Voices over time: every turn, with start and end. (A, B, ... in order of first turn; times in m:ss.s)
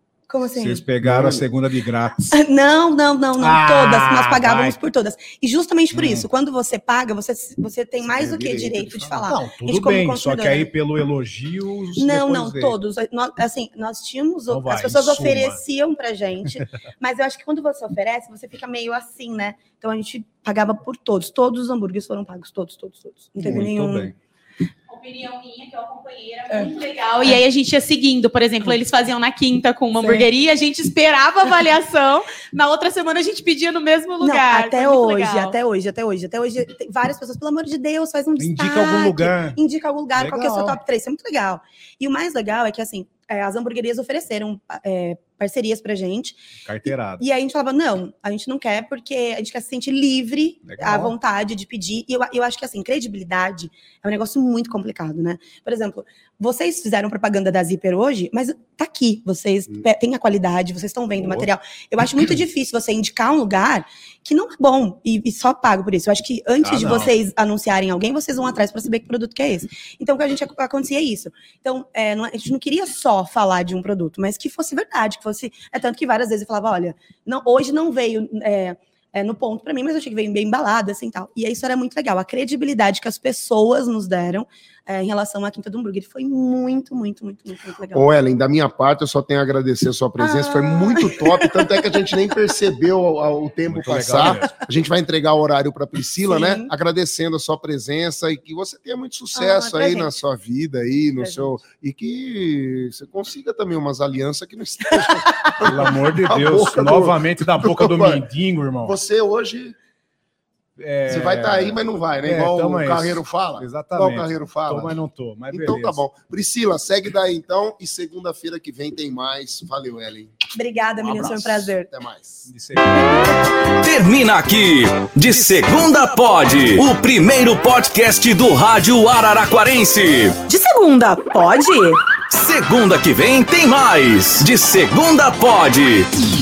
0:00.3-0:00.8 A
0:00.5-0:02.4 B
0:01.0-0:01.4 C
0:02.3-0:10.7 A
0:03.4-0:04.8 B
0:05.9-0:06.3 B
0:08.0-0:09.3 C
0:09.3-0:12.8 B
0:12.0-0:24.1 A
0:14.5-0:15.6 B
0:23.4-0:24.2 B
0:24.9-0:35.6 D
0:30.0-0:30.3 A
0:34.2-1:28.1 A
0:38.4-0:39.6 B
0:40.2-0:40.8 B
0:46.6-0:47.2 B
0:50.6-0:51.2 B
1:01.2-1:01.5 B
1:06.6-1:07.1 B
1:27.9-1:48.3 C
1:30.2-1:31.7 A
1:33.7-1:34.6 B
1:36.2-1:36.7 A
1:39.4-1:40.2 A
1:41.2-1:41.5 A
1:45.0-1:45.5 A
1:45.6-1:49.0 B
1:48.8-1:49.8 C
1:50.8-1:56.0 B
1:51.1-1:54.9 C
1:55.5-2:00.3 C
2:00.6-2:01.9 A
2:01.0-2:02.5 C
2:02.5-2:03.3 B
2:03.8-2:10.5 E
2:10.5-2:12.0 D
2:12.3-2:16.1 E